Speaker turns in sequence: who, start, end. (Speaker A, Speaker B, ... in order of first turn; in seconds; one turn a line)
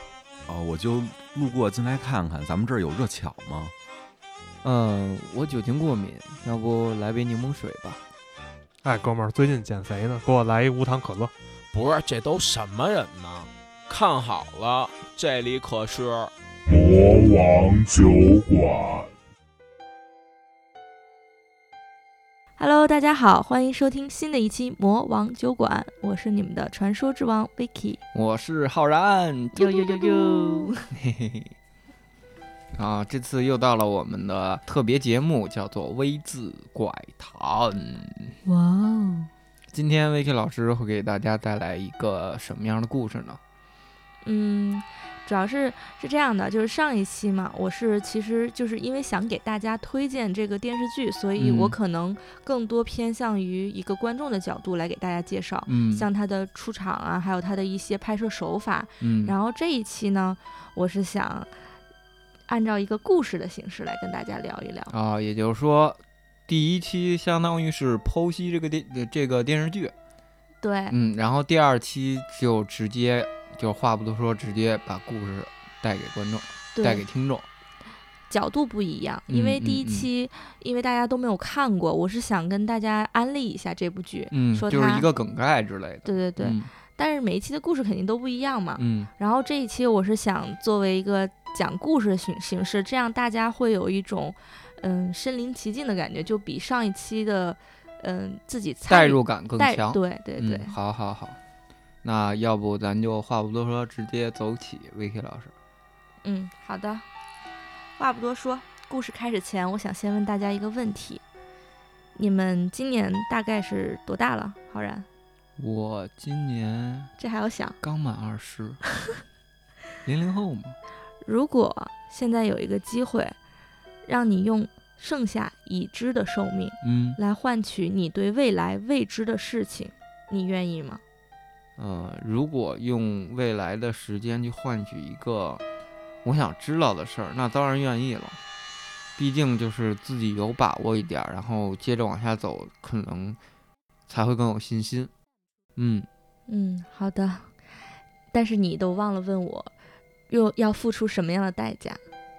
Speaker A: 0.5-3.7
Speaker B: 4.6-8.0
Speaker C: 8.8-11.3
Speaker D: 11.7-16.3
Speaker E: 16.7-19.1
Speaker F: 22.6-28.0
Speaker B: 28.1-31.5
Speaker F: 29.6-30.9
Speaker B: 32.7-38.4
Speaker F: 38.5-39.3
Speaker B: 39.7-43.4
Speaker F: 44.2-61.5
Speaker B: 51.4-51.8
Speaker B: 55.7-56.1
Speaker B: 59.0-59.3
Speaker F: 62.5-64.9
Speaker B: 64.9-69.9
Speaker F: 70.6-71.0
Speaker B: 70.9-77.5
Speaker F: 76.8-77.0
Speaker F: 78.3-85.1
Speaker B: 79.3-80.1
Speaker B: 84.3-86.7
Speaker F: 86.0-100.8
Speaker B: 88.8-89.1
Speaker B: 98.9-101.4
Speaker B: 102.0-105.5
Speaker F: 106.2-107.0
Speaker F: 108.0-111.2
Speaker F: 112.2-115.1
Speaker B: 115.6-117.1
Speaker F: 117.2-117.8
Speaker B: 117.8-118.8
Speaker B: 120.0-120.8
Speaker F: 121.2-123.3
Speaker F: 124.0-131.0
Speaker B: 126.8-127.2
Speaker B: 131.8-135.6
Speaker B: 136.2-138.4
Speaker B: 139.2-143.4
Speaker B: 144.1-145.1
Speaker B: 145.8-146.1
Speaker F: 146.5-147.5
Speaker F: 148.3-149.7
Speaker F: 150.3-152.0